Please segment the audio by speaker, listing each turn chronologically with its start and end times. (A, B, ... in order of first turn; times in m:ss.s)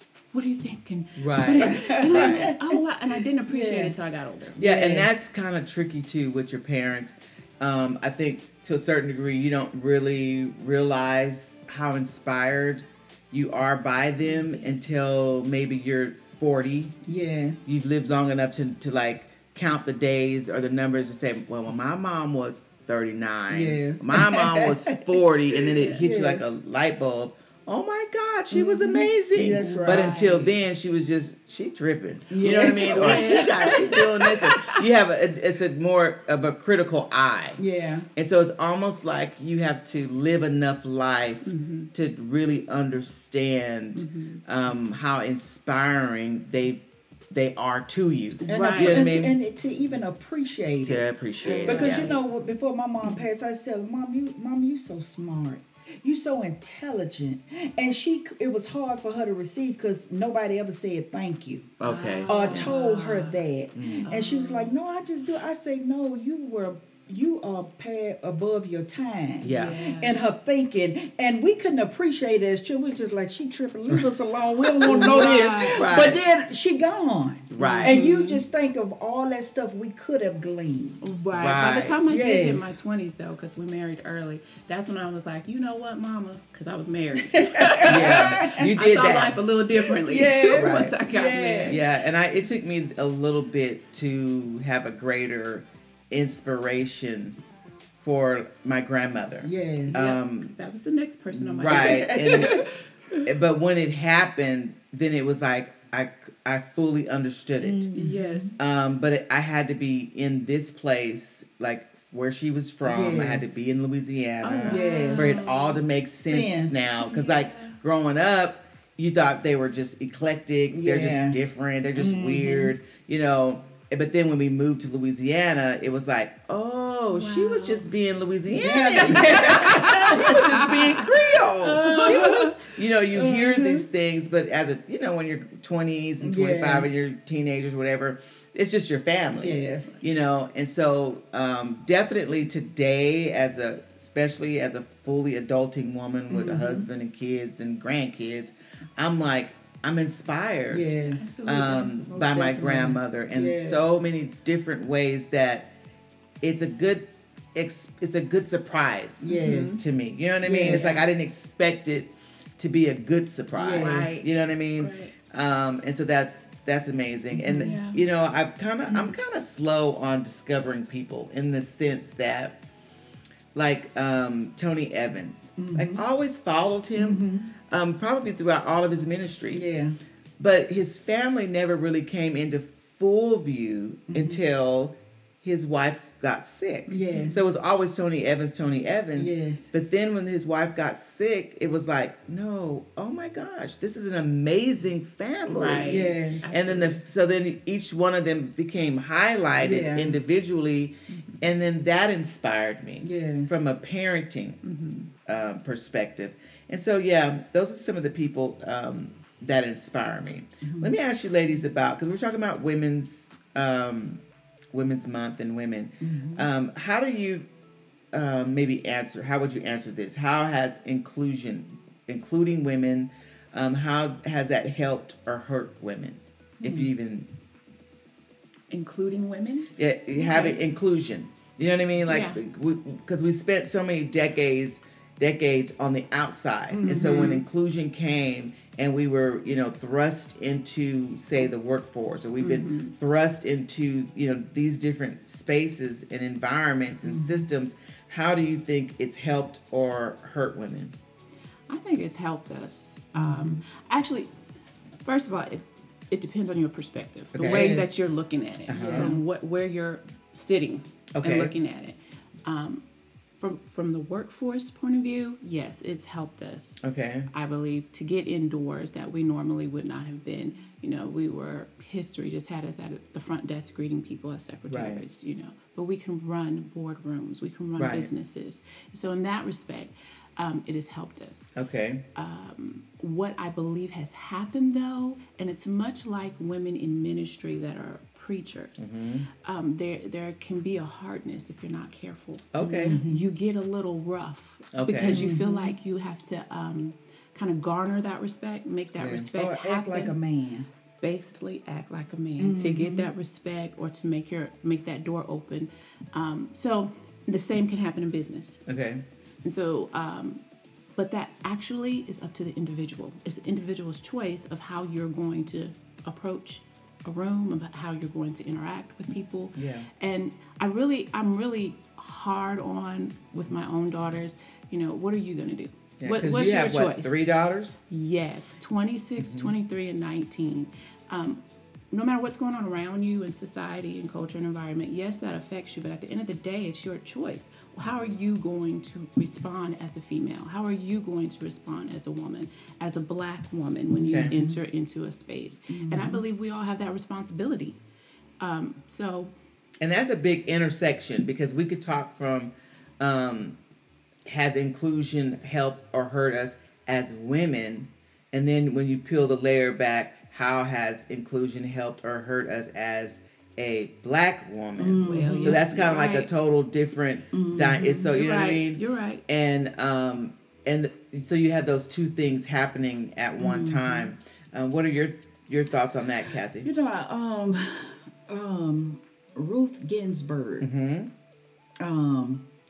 0:00.3-0:04.6 A
0:01.2-0:02.5 B
0:01.5-0:02.8 C
0:03.5-0:03.9 C
0:04.6-0:05.1 C
0:04.6-0:16.9 B
0:14.3-0:14.8 A
0:17.0-0:17.7 C
0:17.6-0:37.6 B
0:23.5-0:26.5 C
0:28.5-0:30.5 A
0:29.3-0:30.1 C
0:32.3-0:34.0 C
0:32.4-0:34.8 A
0:37.6-0:38.1 C
0:38.1-0:49.4 B
0:41.4-0:41.9 A
0:44.0-0:44.4 A
0:48.4-0:49.1 A
0:48.5-1:01.7 C
0:50.8-0:52.2 B
0:51.5-0:52.2 A
1:01.8-1:02.7 B
1:01.8-1:03.4 A
1:02.3-1:21.0 C
1:03.7-1:04.1 B
1:04.0-1:04.8 A
1:09.4-1:09.8 B
1:09.4-1:10.2 A
1:14.8-1:16.2 B
1:14.8-1:15.9 A
1:17.5-1:18.0 B
1:17.6-1:18.4 A
1:21.0-1:31.9 A
1:21.3-1:22.0 B
1:22.1-1:22.6 C
1:27.2-1:28.6 C
1:27.9-1:29.4 B
1:29.8-1:31.8 C
1:30.1-1:31.0 B
1:31.6-1:37.4 B
1:38.0-1:40.5 B
1:39.4-1:40.0 C
1:39.9-1:43.2 A
1:41.3-1:42.6 B
1:41.7-1:42.7 C
1:43.2-1:47.9 B
1:47.6-1:48.6 A
1:47.9-1:48.5 C
1:48.6-2:30.9 B
1:52.8-1:53.5 C
1:54.4-1:55.8 A
1:54.6-1:55.4 C
1:56.2-1:56.8 C
1:57.0-1:57.8 A
2:00.7-2:01.4 C
2:02.0-2:02.7 C
2:07.1-2:07.9 A
2:08.5-2:10.7 C
2:09.1-2:11.1 A
2:11.6-2:12.6 C
2:11.8-2:12.6 A
2:13.1-2:13.8 C
2:16.2-2:16.9 C
2:19.3-2:20.0 C
2:26.3-2:26.8 C
2:30.7-2:31.3 C
2:31.1-2:32.5 A
2:31.4-2:35.7 B
2:32.1-2:33.9 C
2:36.4-2:52.6 B
2:39.2-2:39.8 C
2:39.2-2:39.8 A
2:40.4-2:41.0 C
2:40.6-2:41.0 A
2:43.6-2:44.2 C
2:43.8-2:45.1 A
2:47.3-2:47.7 C
2:47.6-2:48.0 A
2:48.9-2:49.1 A
2:53.5-2:59.6 B
2:55.6-2:56.0 C
2:57.0-2:57.5 C
2:59.5-3:00.0 C
3:00.4-3:24.6 B
3:04.1-3:04.4 C
3:06.9-3:07.4 A
3:06.9-3:07.4 C
3:09.2-3:09.7 C
3:15.5-3:17.0 A
3:15.8-3:16.5 C
3:19.6-3:20.2 C
3:23.0-3:23.6 C
3:24.6-3:25.1 A
3:25.2-3:34.2 B
3:30.6-3:30.9 C
3:34.7-3:37.5 B
3:36.0-3:36.4 C
3:38.1-3:47.3 B
3:46.6-3:46.9 C
3:48.7-3:50.6 A
3:49.8-4:10.9 B
3:52.1-3:52.4 A
3:56.7-3:57.3 C
3:56.8-3:57.4 A
4:02.4-4:02.9 A
4:07.0-4:07.4 C
4:11.7-4:14.3 A
4:13.1-4:13.6 C
4:15.0-4:22.8 A
4:17.3-4:17.7 B
4:17.4-4:17.9 C
4:18.7-4:19.2 B
4:18.7-4:19.2 C
4:21.2-4:21.5 B
4:23.4-4:41.5 A
4:26.8-4:27.3 B
4:34.7-4:35.0 B
4:37.8-4:38.1 B
4:41.6-4:42.0 B
4:42.1-4:48.9 A
4:48.8-4:49.3 B
4:49.4-5:00.2 A
4:52.5-4:53.0 B
4:52.6-4:53.2 C
4:54.7-4:55.3 B
4:55.1-4:55.7 C
4:59.0-4:59.3 B
4:59.3-5:00.7 C
5:01.0-5:08.6 A
5:02.4-5:03.1 C
5:08.7-5:09.0 B
5:09.4-5:10.4 A
5:11.0-5:27.2 A
5:19.6-5:19.9 B
5:26.0-5:27.8 B
5:27.9-5:31.4 A
5:29.2-5:29.5 B
5:31.9-5:47.8 A
5:43.9-5:44.6 C
5:45.7-5:46.2 C
5:48.4-5:49.3 A
5:49.8-5:53.6 B
5:54.2-6:16.7 B
6:04.8-6:05.6 C
6:05.0-6:06.3 A
6:07.3-6:08.1 C
6:08.1-6:09.2 A
6:13.4-6:14.1 C
6:16.6-6:20.7 C
6:20.6-6:21.1 B
6:21.8-6:22.4 C